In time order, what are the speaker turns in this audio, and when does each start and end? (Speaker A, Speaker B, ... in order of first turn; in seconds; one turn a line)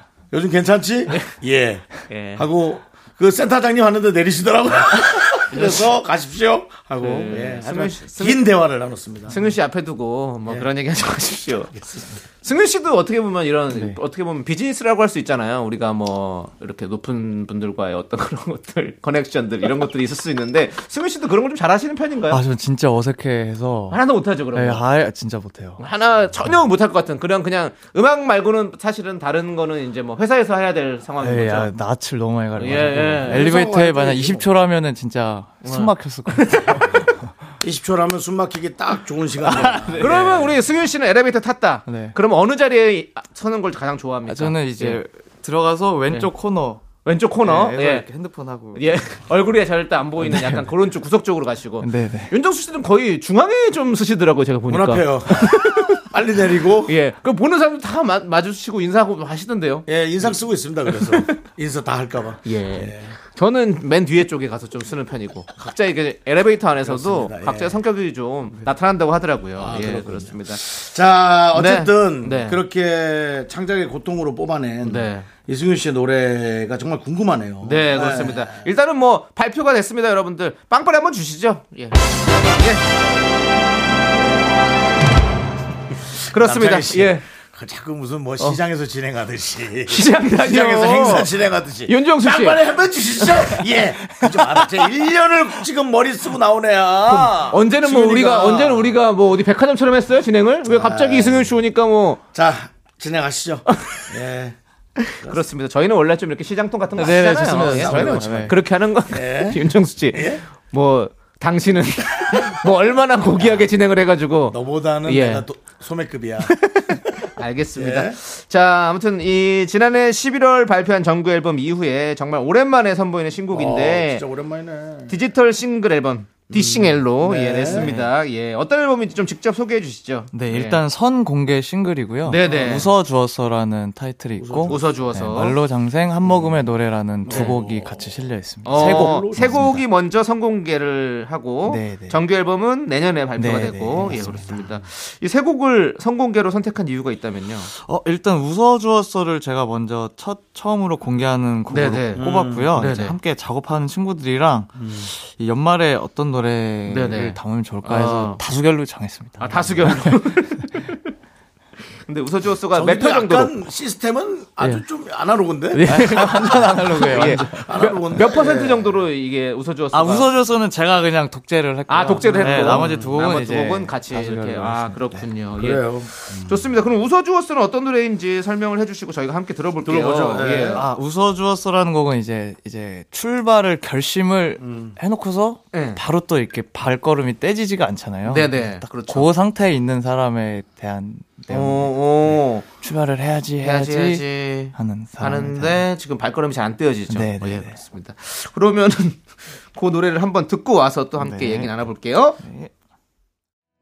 Speaker A: 0.3-9.4
Speaker B: 1.1-1.3
Speaker B: 2.1-2.4
Speaker B: 5.5-5.9
Speaker B: 7.0-8.4
Speaker B: 9.3-22.4
Speaker C: 13.7-14.0
Speaker C: 22.3-24.0
Speaker B: 23.9-24.8
Speaker C: 24.5-25.8
Speaker B: 25.8-31.7
Speaker C: 31.2-37.3
Speaker B: 32.6-33.4
Speaker A: 33.2-34.5
Speaker B: 35.6-37.0
Speaker A: 37.6-40.6
Speaker B: 39.4-45.0
Speaker C: 39.5-40.1
Speaker C: 41.9-42.2
Speaker C: 44.3-46.9
Speaker B: 46.9-48.1
Speaker C: 47.4-48.9
Speaker B: 48.7-56.0
Speaker C: 50.2-50.7
Speaker C: 51.8-52.3
Speaker A: 54.7-56.9
Speaker B: 56.8-60.4
Speaker A: 59.9-63.1
Speaker B: 60.9-61.3
Speaker B: 62.4-70.8
Speaker A: 66.8-67.8
Speaker A: 69.6-78.7
Speaker B: 71.5-72.6
Speaker B: 74.8-75.3
Speaker B: 77.6-82.8
Speaker B: 86.3-87.2
Speaker A: 86.3-99.0
Speaker B: 89.9-91.3
Speaker B: 91.8-93.7
Speaker B: 97.1-102.2
Speaker A: 100.7-101.6
Speaker A: 102.3-104.6
Speaker B: 105.1-115.5
Speaker A: 105.2-105.4
Speaker C: 107.0-108.5
Speaker A: 107.6-108.6
Speaker A: 109.1-110.4
Speaker A: 114.5-116.9
Speaker B: 116.4-124.2
Speaker A: 117.7-118.2
Speaker A: 123.5-125.1
Speaker B: 125.1-130.8
Speaker A: 126.5-128.0
Speaker C: 127.7-128.1
Speaker C: 130.3-139.8
Speaker B: 132.2-132.9
Speaker A: 134.4-134.8
Speaker B: 134.6-135.6
Speaker A: 136.3-136.6
Speaker A: 137.2-138.0
Speaker B: 137.3-137.6
Speaker B: 138.6-147.7
Speaker A: 138.7-139.7
Speaker C: 141.6-142.2
Speaker C: 143.3-144.8
Speaker C: 147.7-160.1
Speaker B: 151.7-153.1
Speaker A: 152.2-152.7
Speaker A: 154.8-155.1
Speaker B: 156.9-158.4
Speaker B: 159.4-160.9
Speaker B: 162.1-163.5
Speaker A: 162.7-166.6
Speaker B: 165.7-170.3
Speaker C: 165.8-167.8
Speaker A: 167.1-169.0
Speaker C: 169.9-175.3
Speaker B: 171.9-180.8
Speaker A: 172.3-173.2
Speaker A: 175.6-176.7
Speaker A: 179.8-180.8
Speaker C: 180.7-195.8
Speaker A: 184.6-185.0
Speaker B: 185.7-186.0
Speaker B: 188.2-189.3
Speaker B: 191.5-192.7
Speaker B: 193.6-199.2
Speaker C: 197.1-197.8
Speaker B: 199.7-202.4
Speaker C: 201.2-201.7
Speaker C: 202.4-202.7